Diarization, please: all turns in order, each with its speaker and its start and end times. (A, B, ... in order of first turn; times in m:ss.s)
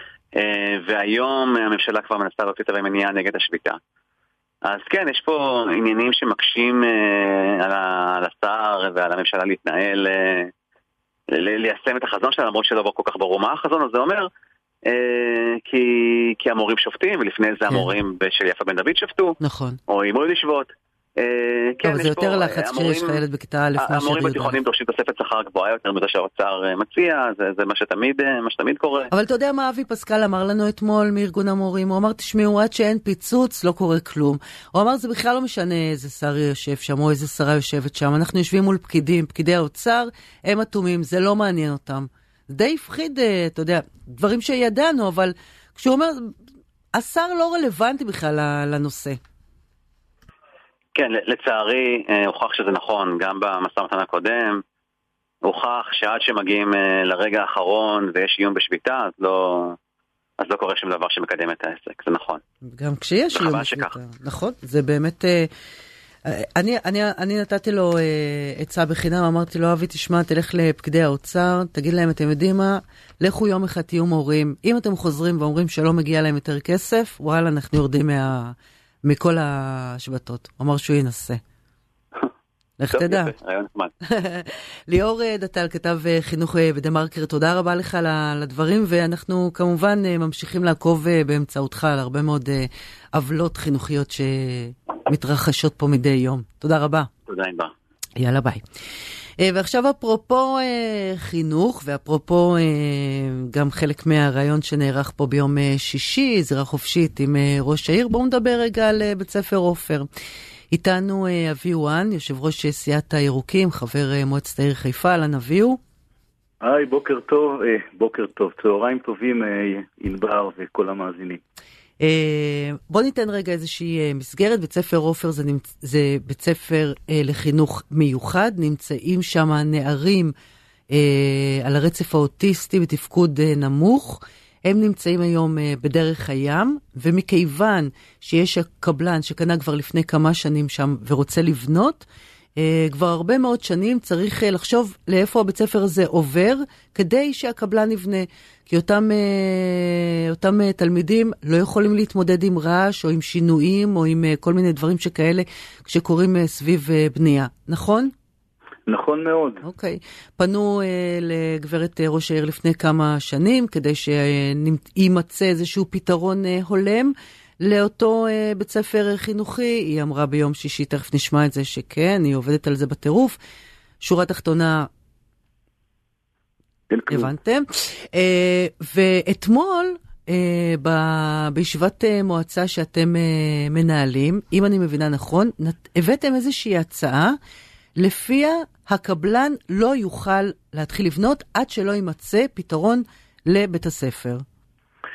0:00.4-0:03.8 A
0:04.6-0:10.5 A
0:11.3-0:14.3 A
0:14.9-0:19.4 A
0:19.4-0:19.8 B
0:19.9-0:23.2 A
0:21.8-0:24.6 B
0:23.8-0:29.1 A
0:29.1-0:46.4 B
0:46.9-0:49.2 B
0:50.9-0:54.6 A
0:55.4-0:59.8 A
1:00.4-1:02.4 A
1:02.6-1:05.5 B
1:03.3-1:04.0 A
1:06.2-1:21.4 B
1:22.8-1:23.3 B
1:22.9-1:23.9 A
1:24.0-1:37.1 B
1:37.2-1:37.7 A
1:38.2-1:38.6 B
1:39.4-1:50.1 B
1:50.7-1:55.8 B
1:56.6-2:01.4 C
2:02.0-2:10.3 B
2:10.9-2:22.0 B
2:22.6-2:38.1 B
2:38.9-2:39.6 C
2:39.6-2:53.4 B
2:54.0-2:54.9 B
2:56.9-2:57.3 C
2:57.1-3:07.4 B
3:08.0-3:14.4 B